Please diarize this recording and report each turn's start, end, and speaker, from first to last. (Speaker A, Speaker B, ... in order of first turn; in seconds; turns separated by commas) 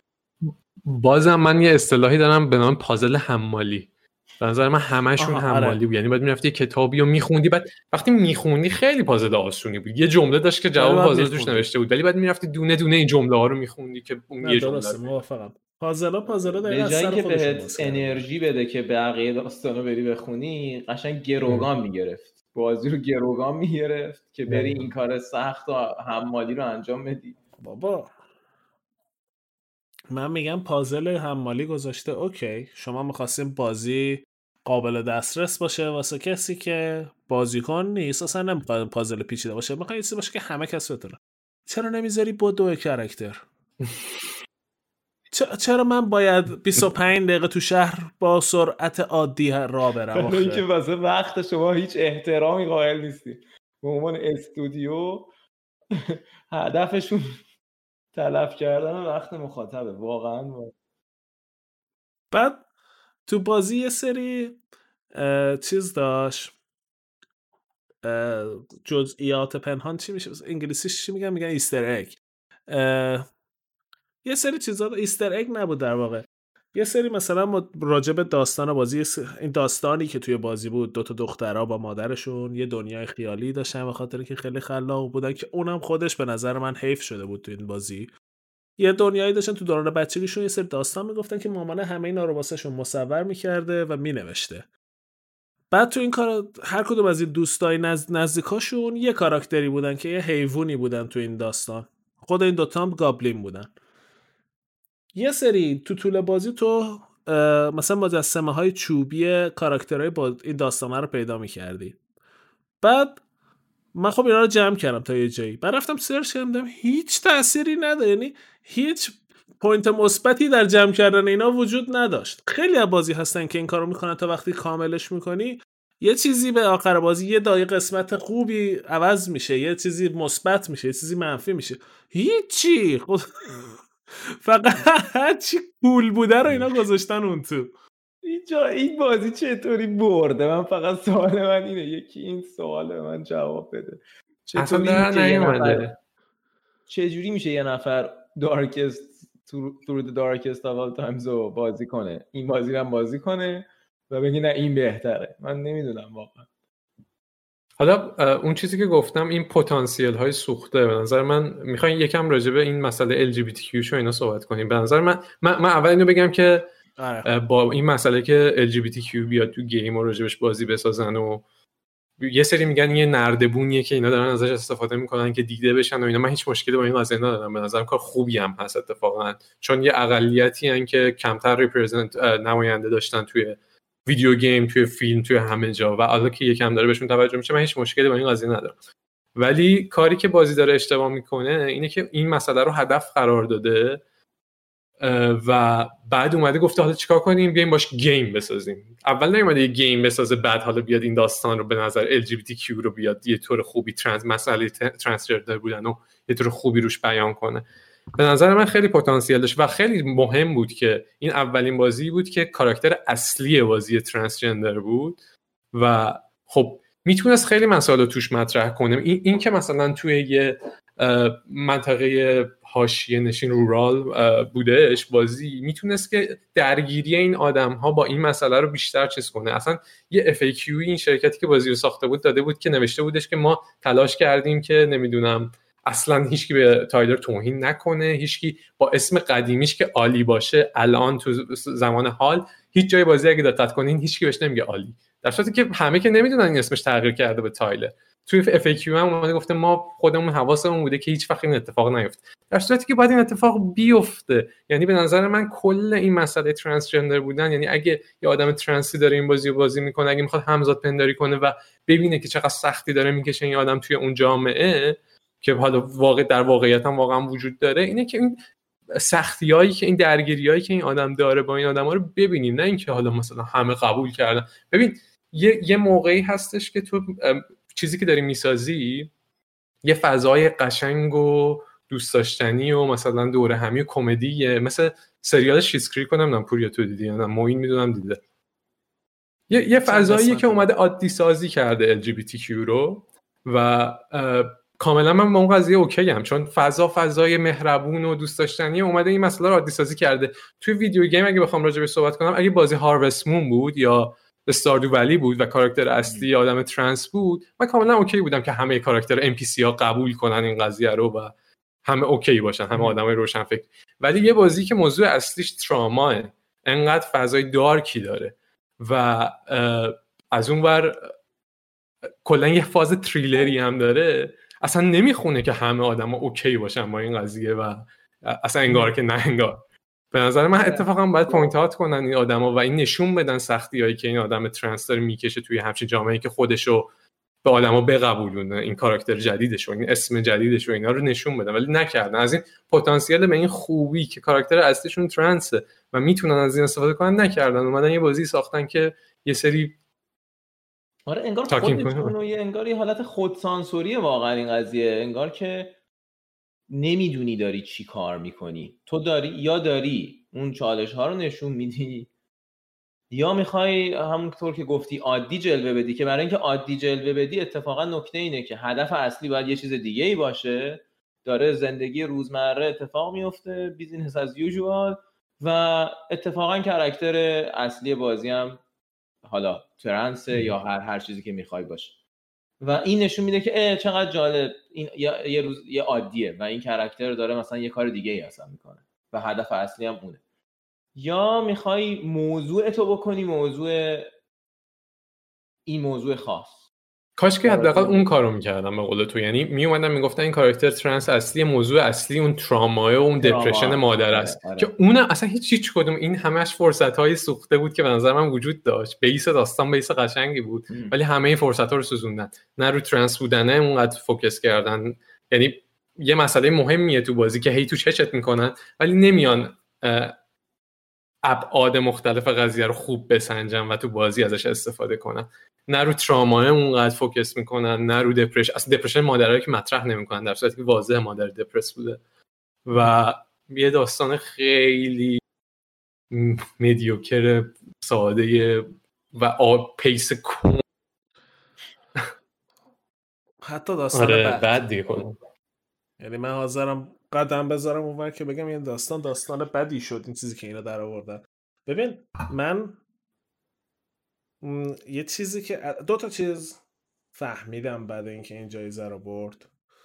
Speaker A: 0.4-15.0, Speaker B: 5.2-5.8, Speaker B: 10.8-11.7, Speaker B: 14.4-18.2, Speaker C: 16.7-27.4, Speaker A: 24.5-24.8, Speaker B: 27.6-28.1, Speaker B: 30.1-43.4, Speaker B: 45.3-50.6, Speaker C: 50.1-55.3, Speaker C: 55.9-57.4, Speaker C: 58.1-60.7, Speaker B: 62.3-62.6, Speaker B: 63.3-64.6, Speaker B: 65.2-66.5, Speaker B: 68.0-73.3, Speaker B: 74.2-88.1, Speaker B: 88.8-94.7, Speaker B: 95.7-103.7, Speaker B: 105.2-112.0, Speaker B: 112.8-113.2, Speaker B: 114.0-133.8, Speaker B: 134.4-137.7, Speaker C: 138.2-145.9, Speaker A: 144.5-145.9, Speaker C: 146.9-156.5, Speaker A: 157.8-166.7, Speaker B: 167.0-167.3, Speaker A: 167.2-171.4, Speaker A: 172.2-188.8, Speaker A: 189.4-194.0, Speaker A: 195.0-207.7, Speaker A: 208.2-215.2, Speaker A: 215.7-268.4, Speaker A: 268.9-279.1, Speaker A: 279.8-288.2, Speaker A: 289.5-311.3, Speaker C: 289.8-290.7, Speaker C: 306.0-306.3, Speaker A: 311.9-321.1, Speaker C: 312.7-313.0, Speaker A: 322.2-329.6, Speaker C: 328.7-328.9, Speaker A: 330.1-336.9, Speaker C: 330.6-330.9, Speaker A: 337.4-349.8, Speaker C: 351.1-355.8, Speaker A: 351.5-352.1, Speaker C: 356.7-362.1, Speaker C: 363.1-378.6, Speaker C: 379.2-381.9, Speaker C: 382.6-390.2, Speaker C: 391.0-394.1, Speaker C: 395.7-396.6, Speaker A: 397.2-420.1, Speaker C: 397.4-398.1, Speaker C: 403.2-404.7, Speaker C: 410.7-410.9, Speaker A: 421.2-432.0, Speaker A: 432.7-435.2, Speaker A: 436.1-440.6, Speaker B: 443.4-444.8, Speaker A: 443.9-445.2, Speaker B: 446.0-452.8, Speaker B: 454.4-456.6, Speaker B: 457.1-459.5